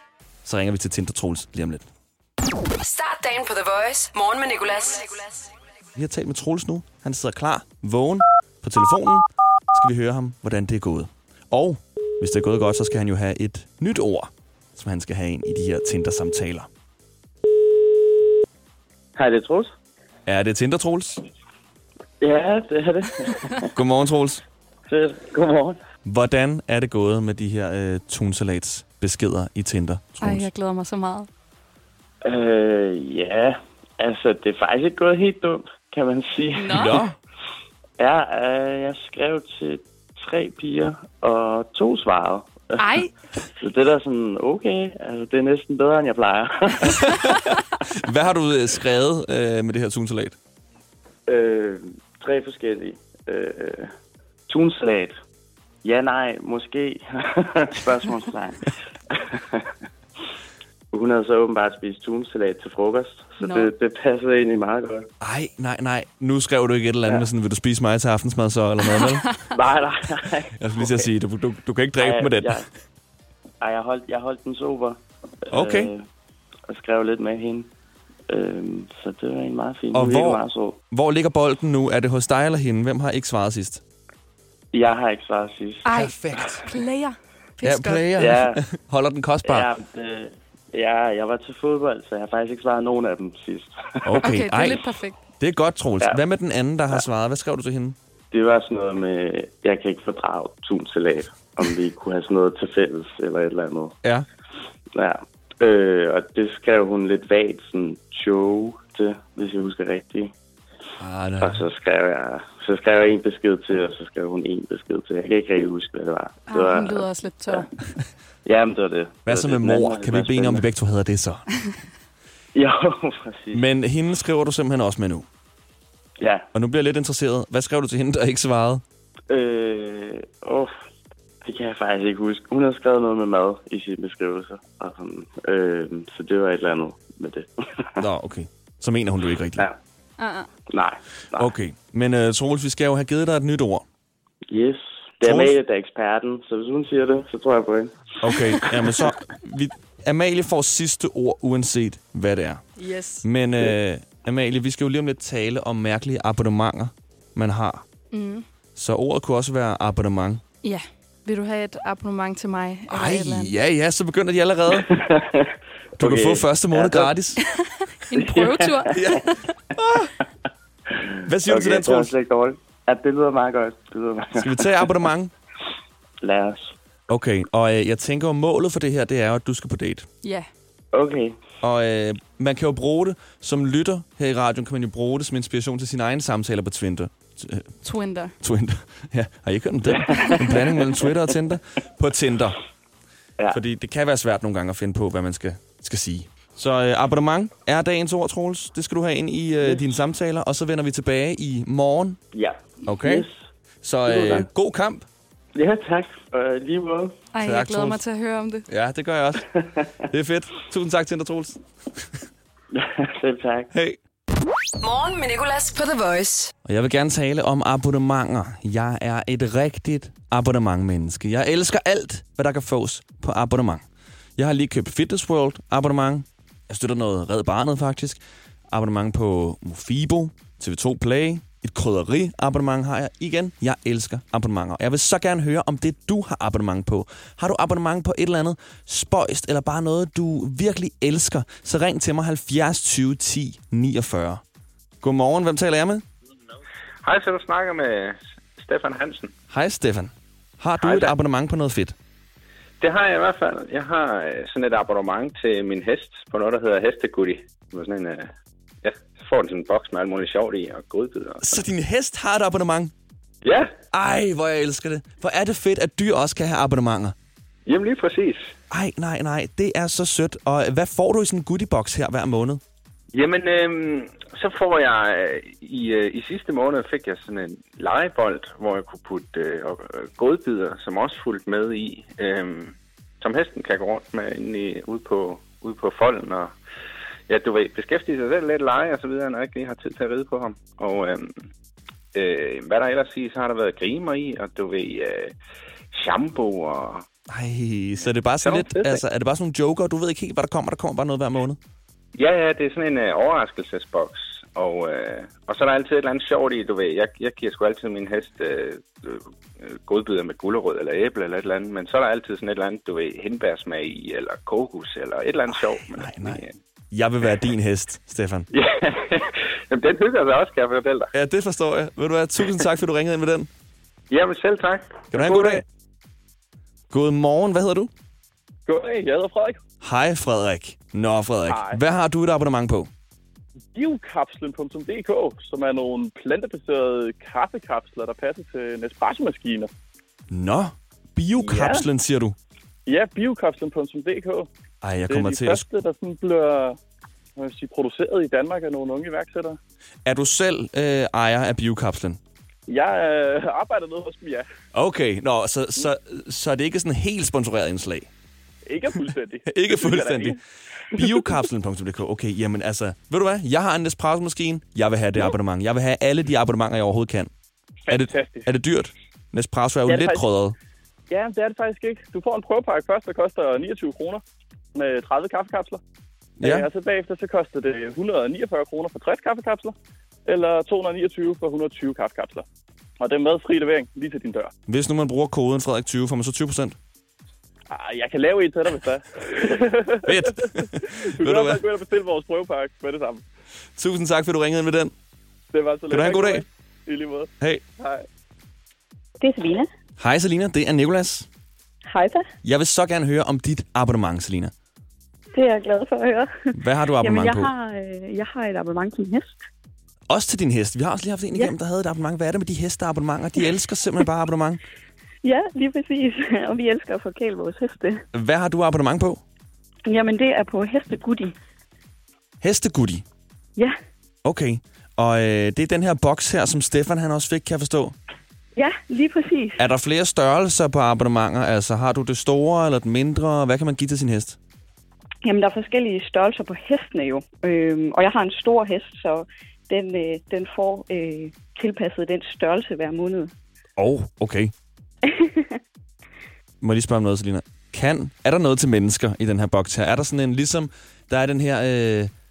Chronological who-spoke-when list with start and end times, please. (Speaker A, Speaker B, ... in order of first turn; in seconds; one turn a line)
Speaker A: 0.4-1.9
Speaker B: 2.8-5.5
Speaker A: 6.0-16.7
Speaker C: 19.1-19.7
Speaker A: 20.2-21.2
Speaker C: 22.2-23.7
Speaker A: 23.7-24.4
Speaker C: 24.9-25.8
Speaker A: 26.0-30.5
Speaker D: 30.2-31.3
Speaker C: 32.2-37.0
Speaker D: 36.5-37.0
Speaker A: 36.7-37.1
Speaker C: 38.0-42.8
Speaker D: 42.8-43.1
Speaker C: 43.6-47.1
Speaker A: 46.8-50.4
Speaker C: 51.3-53.9
Speaker C: 54.5-55.2
Speaker C: 55.8-59.7
Speaker C: 60.9-65.1
Speaker D: 63.4-63.7
Speaker A: 65.2-69.3
Speaker D: 69.0-69.3
Speaker C: 69.5-71.1
Speaker A: 70.5-72.6
Speaker C: 72.0-72.7
Speaker C: 73.6-76.0
Speaker A: 75.5-75.9
Speaker C: 76.7-77.7
Speaker C: 78.3-80.8
Speaker A: 79.9-83.8
Speaker C: 84.7-85.9
Speaker D: 85.8-88.1
Speaker A: 85.9-86.6
Speaker A: 87.6-89.7
Speaker C: 88.2-88.6
Speaker C: 89.4-94.0
Speaker A: 94.0-94.9
Speaker D: 94.1-95.2
Speaker A: 95.4-98.0
Speaker C: 98.3-104.0
Speaker C: 104.9-110.3
Speaker A: 111.0-111.6
Speaker C: 111.4-117.6
Speaker D: 116.5-117.7
Speaker C: 118.4-120.6
Speaker A: 119.2-121.5
Speaker C: 122.5-123.6
Speaker A: 123.5-125.2
Speaker C: 126.2-126.5
Speaker A: 126.5-128.8
Speaker C: 129.3-130.7
Speaker C: 131.4-137.9
Speaker A: 138.0-139.7
Speaker D: 140.2-140.5
Speaker C: 140.7-141.5
Speaker A: 141.4-143.8
Speaker C: 144.5-149.1
Speaker A: 145.2-145.5
Speaker A: 148.2-152.6
Speaker D: 152.8-153.2
Speaker A: 153.2-157.8
Speaker D: 158.1-158.4
Speaker A: 158.7-160.4
Speaker D: 160.6-163.5
Speaker A: 162.9-164.9
Speaker C: 164.8-167.1
Speaker A: 166.0-167.4
Speaker D: 167.4-169.5
Speaker C: 168.1-169.1
Speaker A: 168.9-169.2
Speaker A: 169.7-170.1
Speaker C: 170.9-175.0
Speaker A: 171.2-172.1
Speaker A: 174.4-175.3
Speaker C: 176.2-176.7
Speaker A: 177.1-180.1
Speaker D: 180.2-180.5
Speaker C: 180.9-181.4
Speaker A: 181.6-187.8
Speaker D: 187.8-188.3
Speaker A: 188.4-192.6
Speaker C: 189.9-191.1
Speaker A: 193.5-202.2
Speaker C: 202.3-203.3
Speaker A: 202.8-203.2
Speaker A: 203.8-205.1
Speaker C: 204.1-204.5
Speaker C: 205.5-207.2
Speaker D: 207.3-208.7
Speaker A: 207.4-208.0
Speaker A: 208.7-211.6
Speaker C: 209.6-209.8
Speaker C: 212.7-213.7
Speaker A: 213.7-214.0
Speaker B: 214.8-216.5
Speaker A: 216.6-223.8
Speaker A: 224.4-228.2
Speaker A: 228.7-244.4
Speaker A: 245.0-246.0
Speaker E: 247.0-249.3
Speaker A: 249.5-251.9
Speaker E: 250.8-251.2
Speaker E: 252.8-258.3
Speaker E: 258.8-261.6
Speaker A: 261.4-262.9
Speaker E: 263.4-263.7
Speaker A: 263.9-267.1
Speaker E: 267.6-268.5
Speaker A: 268.7-272.6
Speaker E: 273.1-286.5
Speaker E: 287.3-291.4
Speaker E: 292.1-295.3
Speaker E: 295.9-297.0
Speaker A: 297.3-301.6
Speaker E: 298.1-299.0
Speaker E: 302.1-316.5
Speaker A: 315.5-318.5
Speaker E: 318.5-321.1
Speaker A: 321.1-323.5
Speaker E: 324.1-325.5
Speaker A: 325.1-325.6
Speaker F: 325.3-325.6
Speaker A: 326.9-327.9
Speaker F: 328.7-329.6
Speaker A: 329.8-332.9
Speaker F: 331.5-331.8
Speaker F: 333.7-339.7
Speaker A: 340.3-342.4
Speaker F: 341.4-341.9
Speaker F: 342.9-344.5
Speaker A: 344.8-345.7
Speaker F: 345.1-346.8
Speaker F: 347.4-349.6
Speaker A: 350.1-352.2
Speaker F: 352.7-354.5
Speaker A: 354.7-358.1
Speaker F: 358.7-360.4
Speaker A: 359.4-360.4
Speaker A: 360.9-367.3
Speaker F: 367.9-368.5
Speaker A: 367.9-370.5
Speaker F: 369.9-370.2
Speaker F: 371.1-374.2
Speaker F: 374.7-375.8
Speaker A: 376.4-376.7
Speaker F: 376.4-379.7
Speaker F: 380.3-382.4
Speaker F: 383.0-384.5
Speaker A: 384.7-386.8
Speaker F: 387.7-393.2
Speaker A: 390.1-391.6
Speaker A: 393.8-394.9
Speaker F: 395.5-398.1
Speaker A: 395.9-396.4
Speaker G: 399.2-399.7
Speaker A: 400.0-401.3
Speaker G: 401.9-402.3
Speaker A: 402.4-404.5
Speaker G: 405.3-409.4
Speaker A: 406.5-407.5
Speaker A: 410.1-414.6
Speaker G: 415.2-418.0
Speaker A: 418.1-419.2
Speaker G: 419.9-421.3
Speaker A: 422.4-423.0
Speaker A: 424.2-427.9
Speaker G: 428.6-429.6
Speaker A: 429.6-434.4
Speaker G: 435.2-443.3
Speaker A: 443.8-444.5
Speaker G: 445.0-445.6
Speaker A: 446.6-452.1